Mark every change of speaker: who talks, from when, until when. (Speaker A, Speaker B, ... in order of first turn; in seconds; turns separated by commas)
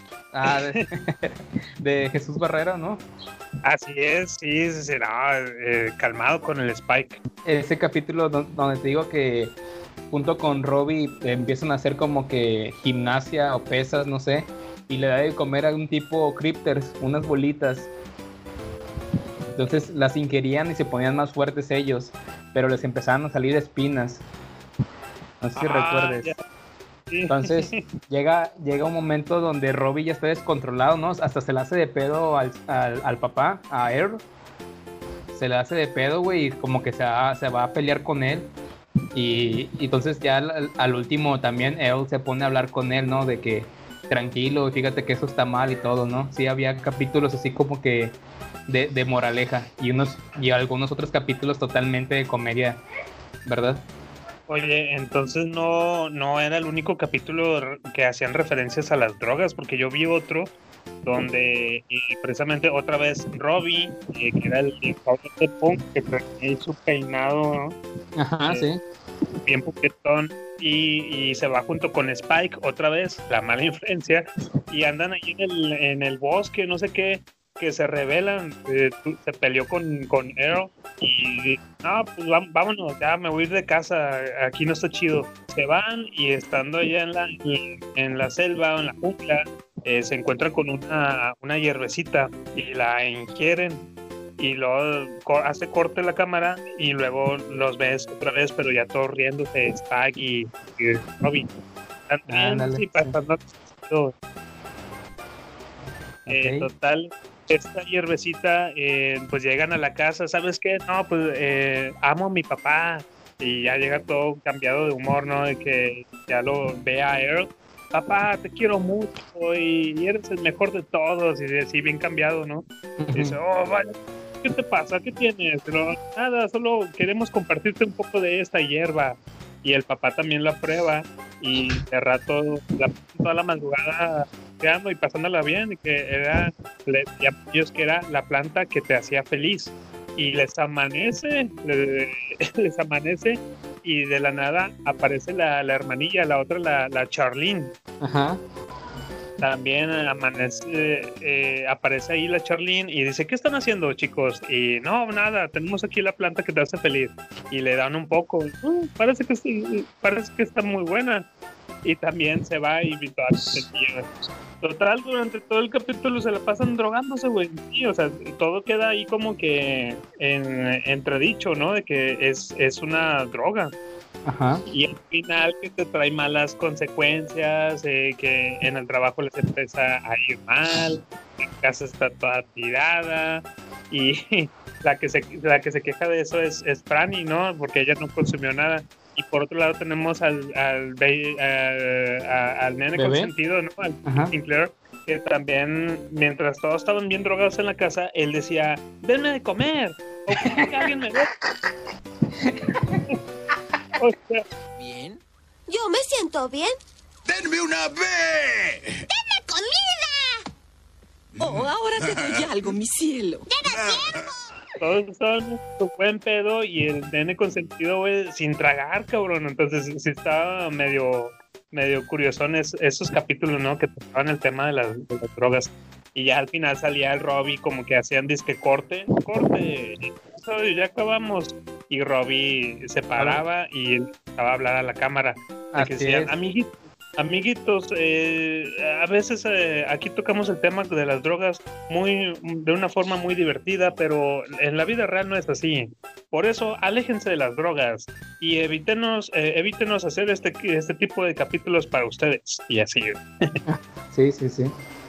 Speaker A: 0.3-3.0, Speaker B: 0.4-0.8, Speaker B: 3.6-7.2, Speaker A: 7.4-9.5, Speaker A: 10.1-17.9, Speaker A: 19.5-24.2, Speaker A: 25.4-26.3, Speaker B: 25.6-26.4, Speaker B: 27.1-27.8, Speaker A: 27.3-34.2, Speaker A: 35.3-38.5, Speaker A: 39.1-48.1, Speaker A: 48.7-52.8, Speaker A: 53.5-53.8, Speaker B: 54.5-60.5, Speaker B: 61.0-67.8, Speaker A: 68.2-68.8, Speaker B: 69.5-93.9, Speaker B: 94.4-101.5, Speaker B: 102.1-104.1, Speaker A: 102.3-103.1, Speaker A: 106.3-106.7, Speaker B: 106.3-147.7, Speaker A: 123.0-123.3, Speaker A: 148.0-148.4, Speaker B: 149.4-161.2, Speaker B: 161.8-164.1, Speaker B: 164.6-173.7, Speaker A: 174.2-174.6, Speaker B: 174.7-181.0, Speaker B: 181.6-201.3, Speaker A: 192.9-193.3, Speaker A: 194.1-194.3, Speaker A: 200.3-200.8, Speaker A: 202.4-203.0, Speaker B: 204.0-204.4, Speaker C: 205.7-206.7, Speaker D: 207.3-209.0, Speaker C: 209.1-210.3, Speaker D: 211.4-212.5, Speaker E: 211.4-213.5, Speaker C: 213.5-214.1, Speaker D: 213.7-214.0, Speaker B: 214.8-253.5, Speaker A: 233.2-233.4, Speaker A: 235.7-236.3, Speaker A: 253.7-254.7